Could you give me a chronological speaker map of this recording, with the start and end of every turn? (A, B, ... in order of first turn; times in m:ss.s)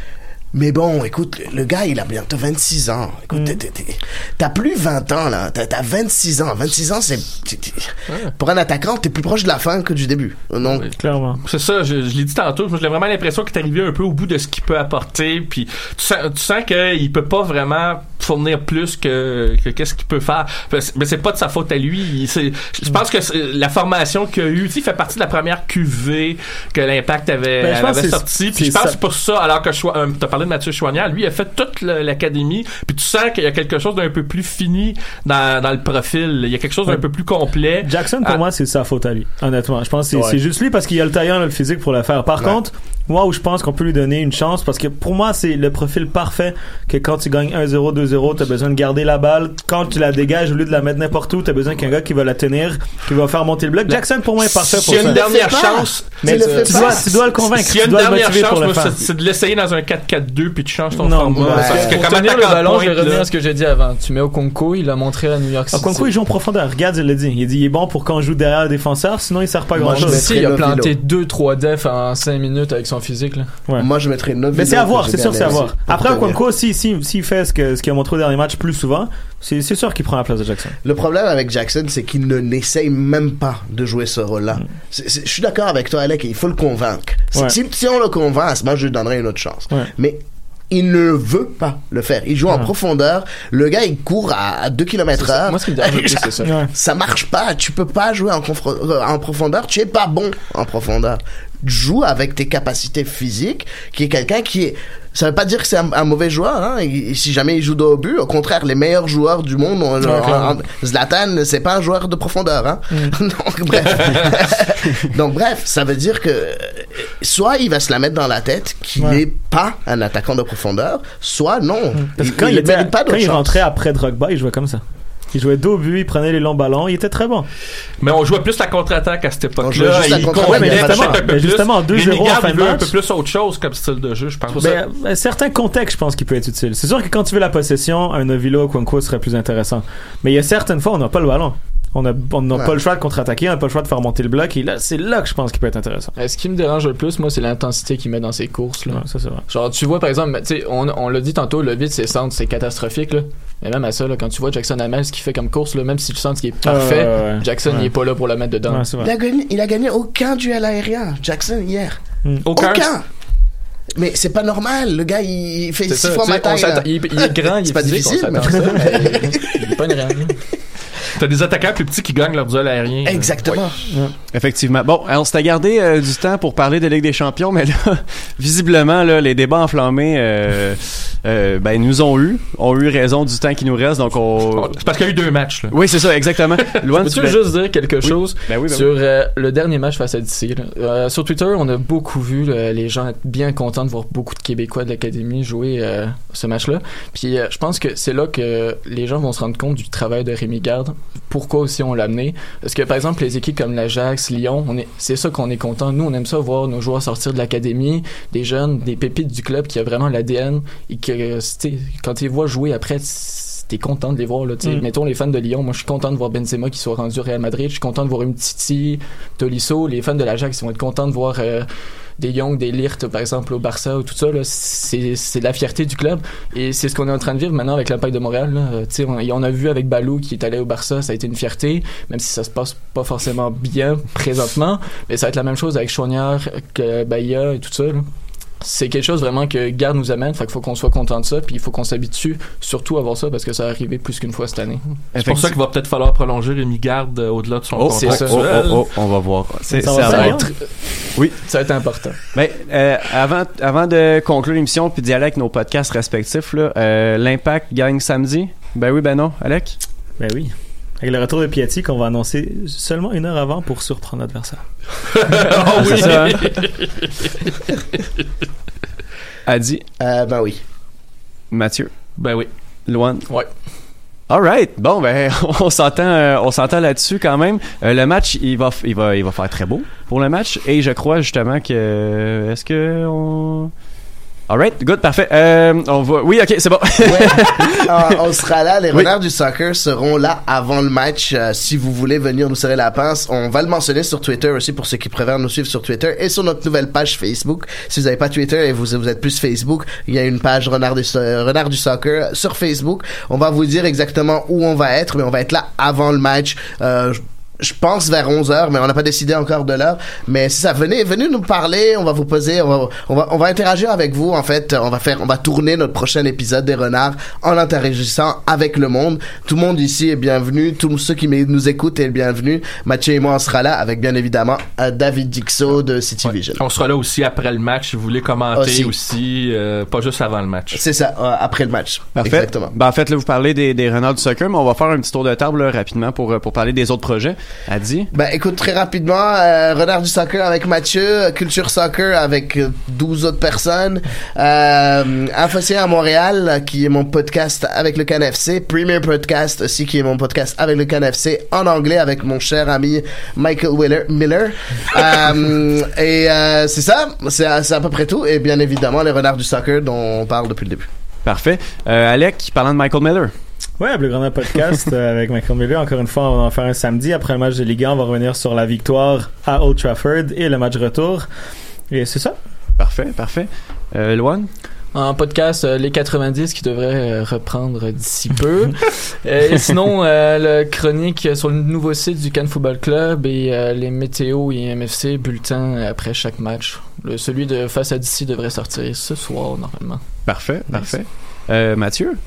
0:00.5-0:10.9 A
0:03.3-0:03.6 B
0:10.6-0:38.4 C
0:11.0-0:11.4 B
0:27.6-0:29.0 B
0:37.8-0:55.3 B
0:54.4-1:03.3 C
0:54.9-0:57.2 A
0:56.2-0:59.0 B
1:00.9-1:01.8 B
1:01.5-1:02.0 A
1:01.6-1:06.1 D
1:05.7-1:10.3 B
1:09.8-1:11.0 A
1:09.9-1:13.5 D
1:13.8-1:16.4 A
1:14.5-1:20.8 B
1:15.4-1:15.7 D
1:20.8-2:03.6 A
1:35.2-1:36.6 D
1:36.4-1:36.7 B
1:50.0-1:50.6 B
1:54.0-1:54.3 C
2:01.9-2:04.8 B
2:05.3-2:07.5 B
2:08.0-2:14.8 C
2:09.6-2:11.2 A
2:09.9-2:12.9 B
2:14.6-2:26.1 B
2:26.2-2:38.9 D
2:28.9-2:29.4 B
2:36.6-2:37.9 B
2:38.7-2:39.1 B
2:39.0-2:42.0 A
2:42.4-2:42.9 C
2:42.6-2:43.0 A
2:43.9-2:49.6 A
2:45.9-2:50.4 D
2:51.2-2:53.3 C
2:53.0-2:53.8 A
2:54.3-3:04.8 E
3:04.5-3:05.8 C
3:05.7-3:08.9 E
3:07.0-3:58.0 D
3:58.6-4:04.8 D
4:05.1-4:05.6 E
4:05.1-4:08.9 C
4:07.7-4:10.5 E
4:07.9-4:08.5 D
4:09.7-4:10.5 B
4:10.0-4:10.7 D
4:11.4-4:12.2 D
4:12.3-4:19.8 E
4:20.2-4:24.6 B
4:25.2-4:28.0 C
4:25.7-4:26.0 D
4:25.8-4:26.5 E
4:29.4-4:29.8 E
4:30.0-4:30.6 A
4:31.5-4:31.9 E
4:32.2-4:32.5 C
4:32.9-4:33.2 E
4:34.3-4:43.7 E
4:44.5-4:47.9 E
4:47.0-5:26.6 A
5:26.2-5:30.8 C
5:28.6-5:28.9 A
5:30.7-5:32.7 A
5:32.1-5:38.1 E
5:38.1-6:00.9 A
6:01.2-6:03.3 E
6:03.8-6:11.3 B
6:11.9-6:12.4 B
6:12.8-6:14.5 E
6:14.9-6:30.0 D
6:30.2-6:32.2 E